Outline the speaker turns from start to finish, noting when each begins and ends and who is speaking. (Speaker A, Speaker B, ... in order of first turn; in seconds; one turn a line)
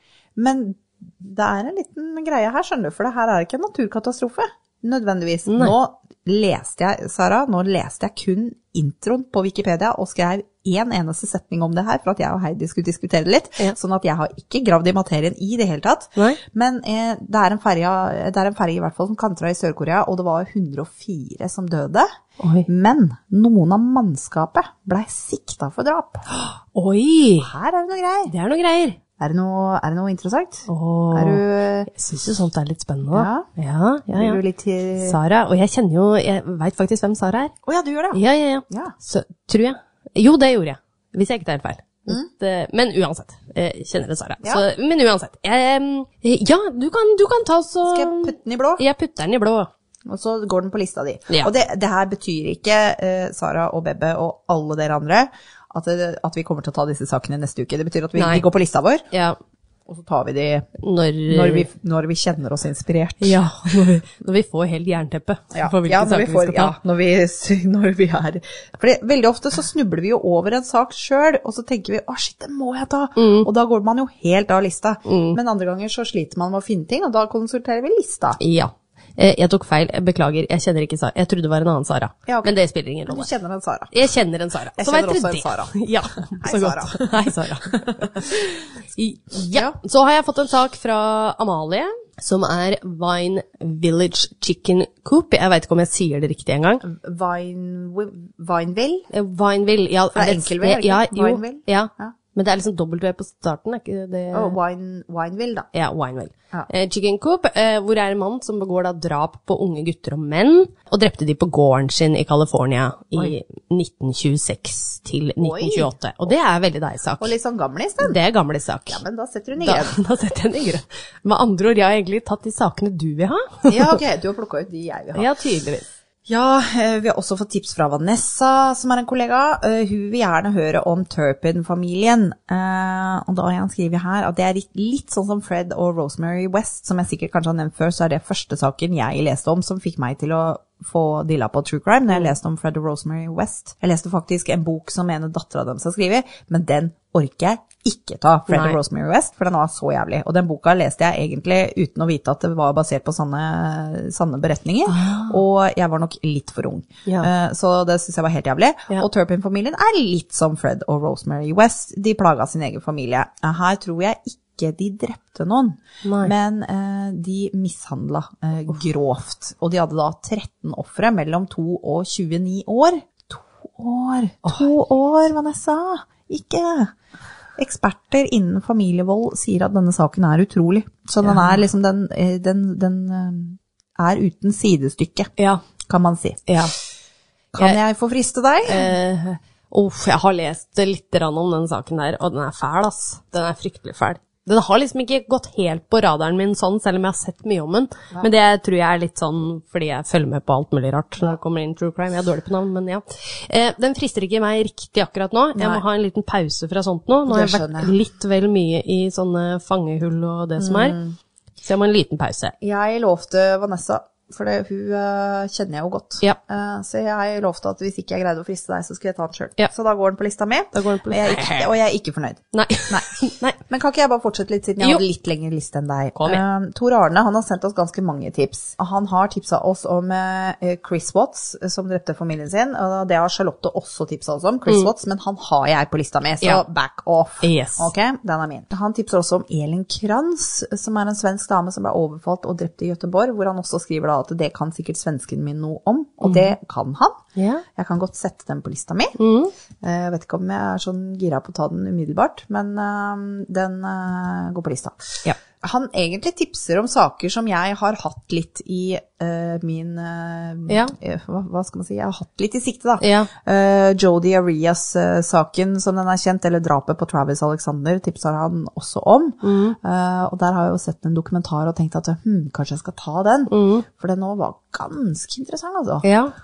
Speaker A: 0.3-22.1
Speaker B: 5.5-5.8
Speaker B: 22.4-22.7
Speaker A: 22.6-26.2
Speaker B: 26.3-27.5
Speaker A: 27.4-28.3
Speaker B: 28.3-29.0
Speaker A: 29.2-31.9
Speaker B: 30.7-34.4
Speaker A: 33.1-33.5
Speaker A: 34.1-35.2
Speaker B: 35.0-37.5
Speaker A: 37.6-38.9
Speaker B: 38.1-49.7
Speaker A: 47.8-48.8
Speaker A: 50.1-59.0
Speaker B: 58.1-58.4
Speaker B: 59.1-59.4
Speaker A: 59.9-60.7
Speaker B: 60.8-61.7
Speaker A: 61.3-63.4
Speaker B: 63.2-66.8
Speaker A: 65.5-78.4
Speaker B: 73.2-73.5
Speaker B: 75.0-75.4
Speaker B: 78.4-83.3
Speaker A: 82.3-82.5
Speaker A: 83.1-83.9
Speaker B: 83.9-96.8
Speaker A: 84.8-88.4
Speaker A: 89.5-89.8
Speaker A: 96.8-99.1
Speaker B: 99.1-104.5
Speaker A: 100.1-102.1
Speaker A: 104.3-105.7
Speaker B: 105.7-117.3
Speaker A: 115.4-115.9
Speaker A: 117.2-118.2
Speaker B: 118.0-119.0
Speaker A: 118.9-120.0
Speaker B: 119.6-124.0
Speaker A: 123.7-125.3
Speaker B: 125.1-125.8
Speaker A: 126.2-176.9
Speaker B: 148.5-148.8
Speaker B: 154.9-155.4
Speaker B: 166.0-166.3
Speaker B: 174.4-174.7
Speaker A: 177.6-185.3
Speaker B: 181.2-181.6
Speaker B: 185.4-185.6
Speaker A: 185.8-186.4
Speaker B: 186.5-186.7
Speaker A: 187.5-188.9
Speaker B: 188.7-211.0
Speaker A: 205.5-205.8
Speaker A: 207.3-207.9
Speaker A: 210.6-211.2
Speaker B: 211.6-212.5
Speaker A: 212.6-223.1
Speaker B: 220.7-221.7
Speaker B: 222.5-223.6
Speaker A: 223.7-247.2
Speaker B: 226.2-226.4
Speaker B: 237.4-237.9
Speaker B: 246.2-246.5
Speaker B: 247.3-247.6
Speaker A: 247.7-249.2
Speaker B: 249.2-249.5
Speaker A: 249.8-276.0
Speaker B: 260.7-260.9
Speaker B: 263.0-263.3
Speaker B: 269.4-269.8
Speaker B: 273.5-273.8
Speaker B: 276.0-276.3